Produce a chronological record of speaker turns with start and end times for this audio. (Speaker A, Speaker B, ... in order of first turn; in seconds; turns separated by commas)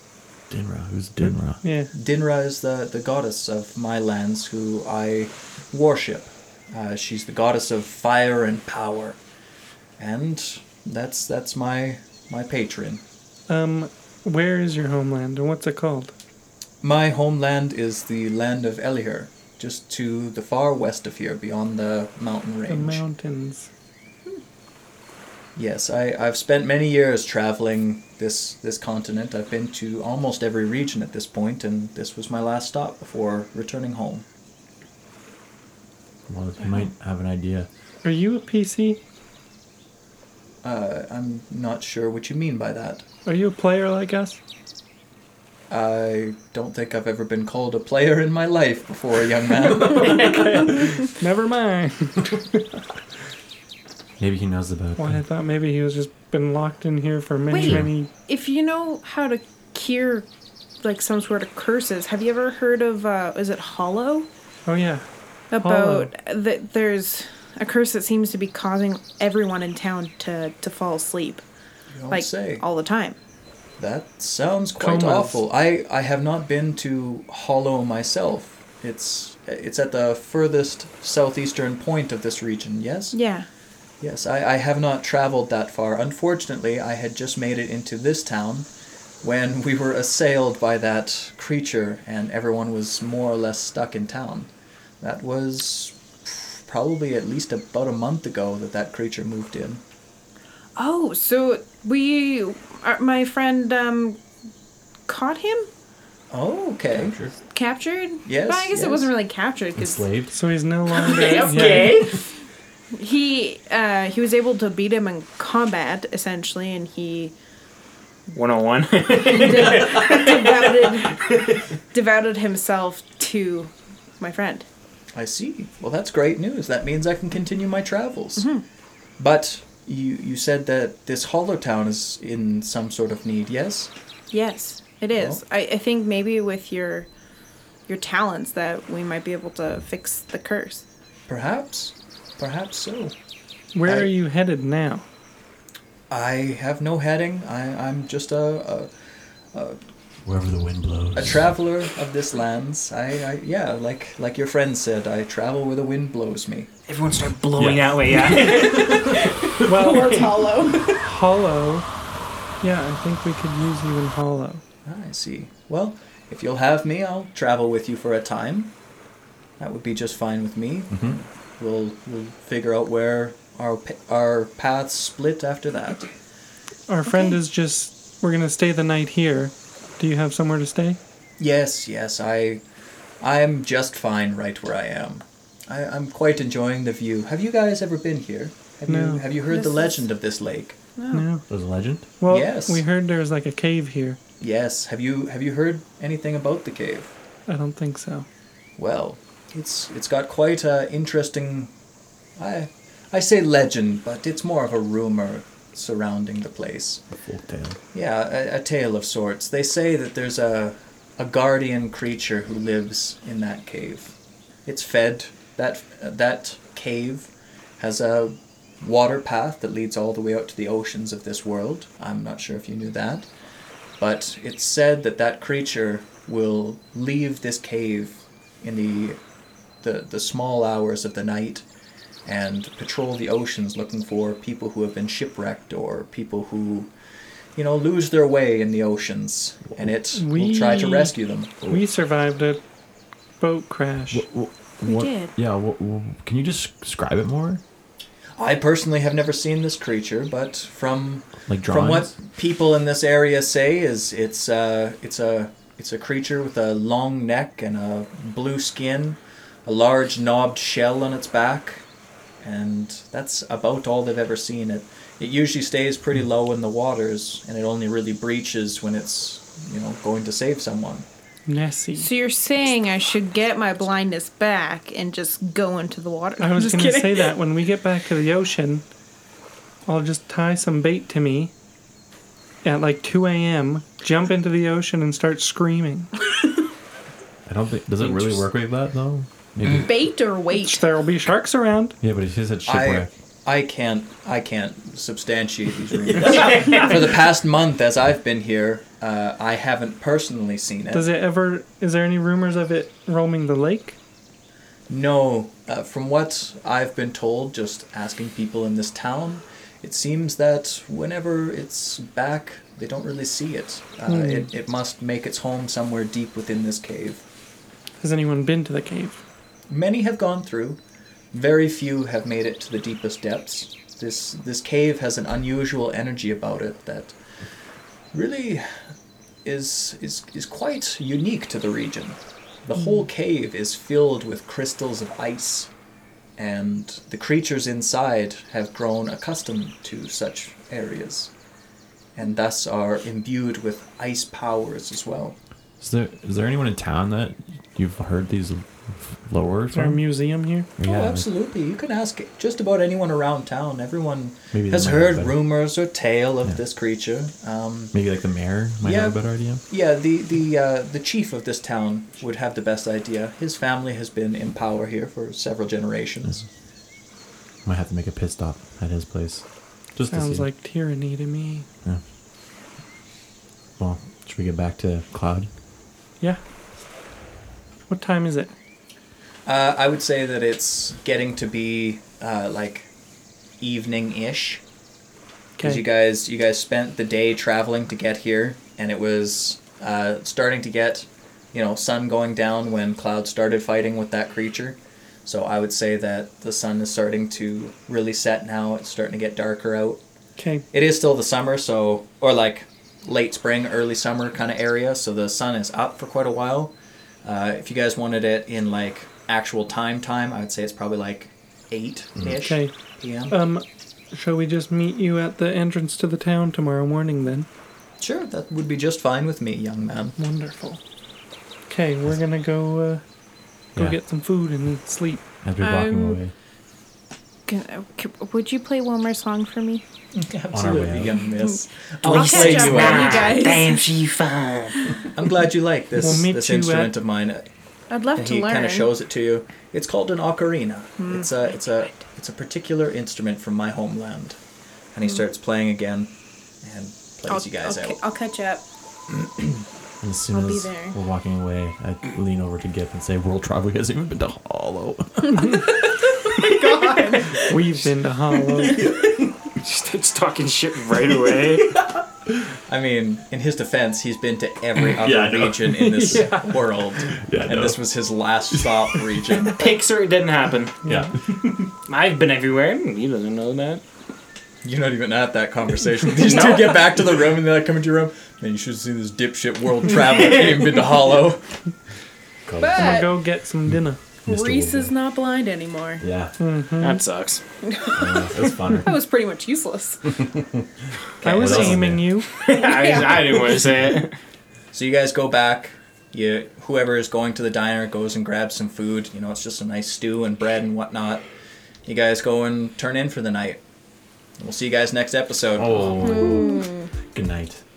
Speaker A: 0.5-1.6, Speaker B: 1.6-1.9, Speaker C: 1.9-9.2, Speaker C: 10.0-13.0, Speaker B: 13.5-16.1, Speaker C: 16.8-23.0, Speaker B: 22.7-23.7, Speaker C: 25.6-34.2, Speaker A: 36.3-37.7, Speaker B: 38.0-39.0, Speaker C: 40.6-43.1, Speaker B: 43.2-44.4, Speaker C: 45.7-50.4, Speaker B: 50.3-52.6, Speaker A: 54.2-55.2, Speaker B: 55.0-58.1, Speaker D: 57.5-60.3, Speaker A: 57.6-57.9, Speaker D: 60.8-64.3, Speaker B: 64.7-66.1, Speaker D: 65.5-71.5, Speaker C: 71.9-72.6, Speaker D: 72.1-73.2, Speaker C: 73.8-83.2, Speaker B: 74.8-75.4, Speaker D: 83.1-83.5, Speaker C: 84.0-88.7, Speaker C: 89.2-94.5, Speaker C: 95.0-99.8, Speaker D: 100.8-104.2, Speaker D: 105.1-105.7, Speaker C: 106.3-107.2, Speaker A: 107.0-107.3, Speaker D: 107.5-110.0, Speaker C: 108.2-109.1, Speaker A: 109.8-110.3, Speaker B: 110.3-112.1, Speaker E: 110.9-112.3, Speaker D: 111.2-111.7, Speaker D: 113.0-117.3, Speaker E: 118.3-121.6, Speaker D: 119.2-124.7, Speaker C: 125.2-128.5, Speaker D: 128.4-128.6, Speaker C: 129.2-133.9, Speaker D: 134.3-137.1, Speaker C: 135.1-135.4, Speaker D: 137.9-140.8, Speaker C: 141.3-143.1, Speaker B: 143.7-145.1, Speaker C: 143.8-144.1, Speaker C: 146.1-148.9, Speaker C: 149.5-149.8, Speaker A: 150.2-151.5, Speaker C: 151.1-156.7, Speaker E: 156.9-160.3, Speaker A: 157.6-159.3, Speaker B: 159.6-161.9, Speaker D: 159.7-161.0, Speaker B: 162.6-164.6, Speaker C: 164.9-168.7, Speaker C: 169.6-176.1, Speaker A: 170.9-171.2, Speaker B: 176.9-181.0, Speaker C: 181.4-182.6, Speaker C: 183.2-190.8, Speaker B: 188.9-189.2, Speaker D: 189.5-190.0, Speaker D: 191.0-191.2, Speaker B: 191.1-191.4, Speaker A: 191.5-192.1, Speaker B: 192.2-194.2, Speaker C: 192.3-192.8, Speaker C: 194.4-197.1, Speaker B: 197.5-198.3, Speaker C: 198.8-201.7, Speaker C: 202.4-207.1, Speaker A: 207.2-207.8, Speaker C: 207.9-223.3, Speaker C: 224.0-229.2, Speaker C: 229.8-231.7, Speaker C: 232.3-236.9, Speaker C: 237.6-241.6, Speaker B: 240.1-242.6, Speaker B: 243.4-244.3, Speaker A: 244.1-247.6, Speaker D: 244.8-245.3, Speaker C: 248.4-261.9, Speaker A: 251.5-252.2, Speaker C: 262.4-271.1, Speaker B: 271.5-272.1, Speaker D: 272.0-277.3, Speaker B: 276.4-278.9, Speaker B: 279.9-281.5, Speaker B: 282.6-286.1, Speaker A: 287.5-290.1, Speaker D: 289.8-290.9, Speaker B: 290.5-292.0, Speaker A: 292.0-293.1, Speaker C: 292.7-301.1, Speaker A: 296.1-296.8, Speaker E: 296.5-296.9, Speaker B: 300.9-304.0, Speaker C: 304.9-317.2, Speaker B: 314.1-314.5, Speaker B: 318.0-319.2, Speaker C: 319.7-320.8, Speaker C: 321.3-327.2, Speaker C: 328.1-328.7, Speaker C: 329.4-335.7, Speaker C: 336.4-341.3, Speaker C: 342.2-345.4, Speaker A: 345.8-350.0, Speaker B: 349.7-350.7, Speaker A: 350.8-351.3, Speaker C: 350.8-357.9, Speaker A: 354.5-355.4, Speaker A: 357.9-359.6, Speaker C: 358.8-366.5, Speaker A: 367.6-369.4, Speaker A: 370.0-370.5, Speaker B: 370.1-371.7, Speaker A: 373.8-375.5, Speaker B: 377.9-378.5, Speaker C: 379.5-382.9, Speaker C: 383.6-384.6, Speaker B: 385.6-385.9, Speaker C: 385.6-400.0, Speaker B: 400.4-400.7, Speaker C: 400.7-413.4, Speaker B: 412.4-412.7, Speaker B: 413.3-417.5, Speaker C: 418.0-420.2, Speaker B: 420.2-420.8, Speaker B: 421.7-423.0, Speaker B: 423.7-425.2, Speaker A: 425.4-426.3, Speaker D: 425.6-426.2, Speaker D: 427.5-429.8, Speaker C: 430.1-433.4, Speaker A: 430.5-431.2, Speaker E: 432.0-434.9, Speaker D: 432.1-433.9, Speaker C: 435.1-437.5, Speaker B: 435.9-436.9, Speaker D: 437.9-438.9, Speaker C: 438.1-444.4, Speaker D: 441.0-441.3, Speaker C: 444.9-448.0, Speaker D: 447.3-448.6, Speaker A: 450.0-455.7, Speaker D: 450.3-451.0, Speaker D: 456.3-457.5, Speaker B: 457.4-458.9, Speaker A: 458.6-459.3, Speaker E: 459.6-461.7, Speaker A: 461.1-462.5, Speaker C: 462.7-469.7, Speaker A: 464.8-466.3, Speaker B: 466.1-466.5, Speaker A: 467.1-467.8, Speaker A: 468.5-469.4, Speaker E: 469.4-470.8, Speaker B: 470.9-471.1, Speaker A: 470.9-471.1, Speaker E: 471.7-473.8, Speaker C: 474.6-481.4, Speaker E: 476.2-476.9, Speaker A: 482.5-483.0, Speaker D: 482.6-483.2, Speaker B: 482.8-484.0, Speaker A: 484.2-484.9, Speaker D: 484.3-486.0, Speaker A: 486.0-486.3, Speaker B: 486.4-487.0, Speaker E: 486.8-487.4, Speaker D: 487.6-490.2, Speaker A: 487.9-489.0, Speaker A: 490.2-490.6, Speaker B: 491.2-492.4, Speaker A: 491.2-492.2, Speaker C: 491.2-491.8, Speaker E: 492.3-494.1, Speaker D: 492.5-493.6, Speaker C: 494.7-501.2, Speaker C: 501.9-503.6, Speaker C: 504.4-506.2, Speaker A: 505.6-507.6, Speaker D: 506.0-506.9